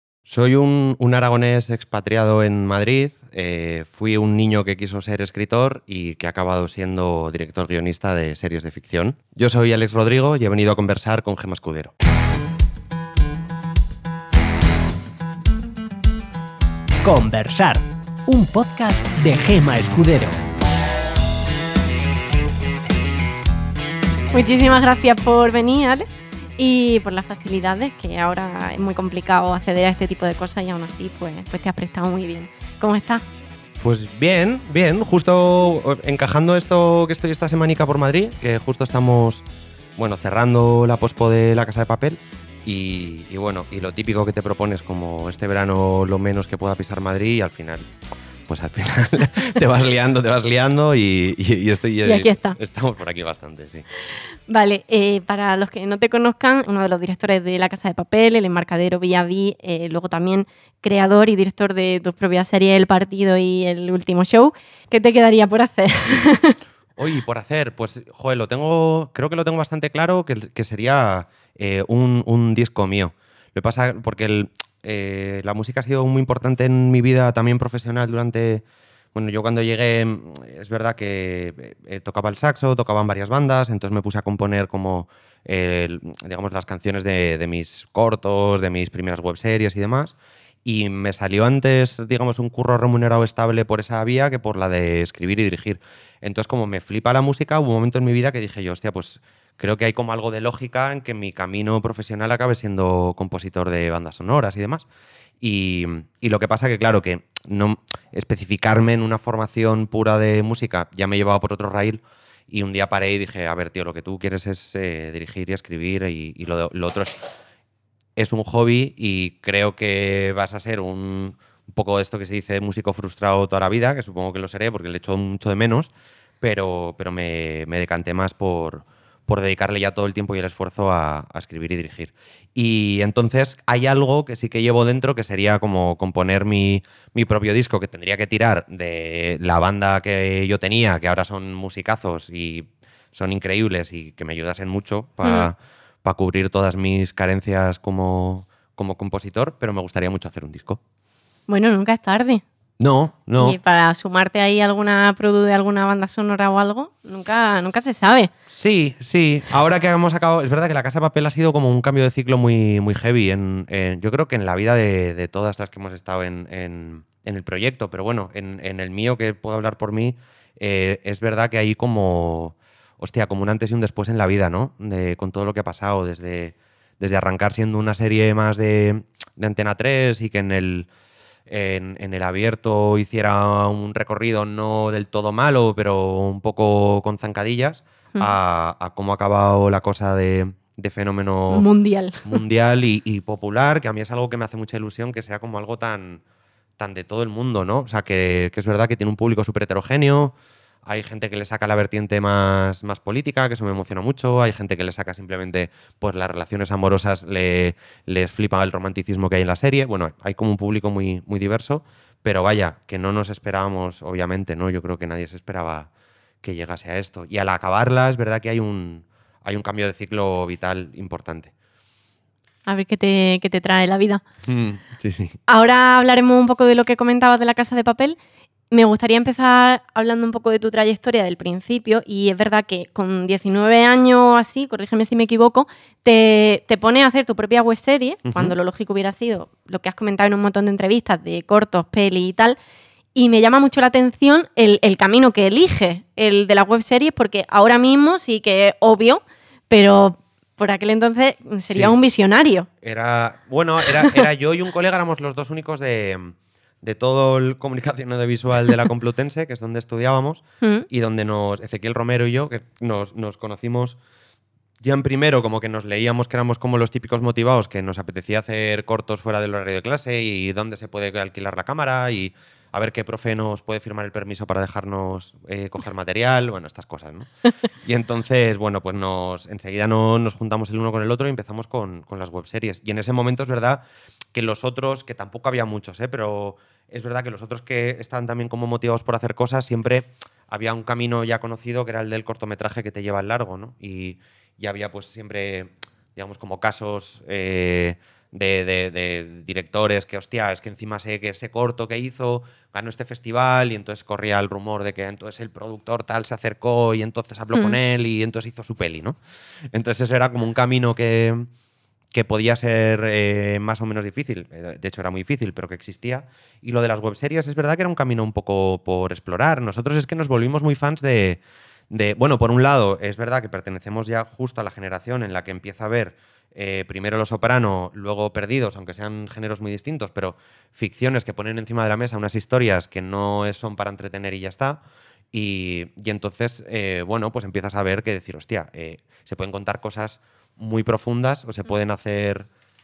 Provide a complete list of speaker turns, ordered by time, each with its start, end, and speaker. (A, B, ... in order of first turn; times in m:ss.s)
0:00.2-0:11.9 A
0:17.0-0:20.4 B
0:24.3-0:26.0 C
0:26.6-0:33.2 C
0:33.8-0:47.9 A
0:48.5-0:53.9 A
0:52.0-0:52.6 C
0:54.5-1:06.6 C
1:07.0-1:44.8 A
1:45.4-1:57.2 A
1:58.2-2:30.8 A
2:25.2-2:25.5 C
2:31.5-2:32.4 C
2:32.8-2:33.6 A
2:33.4-2:38.3 C
2:38.5-3:00.9 A
3:01.5-3:11.7 A
3:11.5-3:12.2 C
3:12.2-3:16.2 A
3:16.8-3:20.3 A
3:20.8-3:35.9 A
3:36.4-3:41.5 A
3:42.6-3:44.2 C
3:44.4-3:45.4 A
3:45.5-3:48.2 C
3:48.7-4:02.6 C
3:58.2-3:58.5 A
4:03.1-4:12.7 C
4:11.7-4:12.0 A
4:12.8-4:24.0 A
4:20.6-4:20.9 C
4:24.8-4:37.3 A
4:37.8-5:09.2 A
5:09.7-5:11.5 A
5:12.1-5:34.8 A
5:35.3-5:42.5 A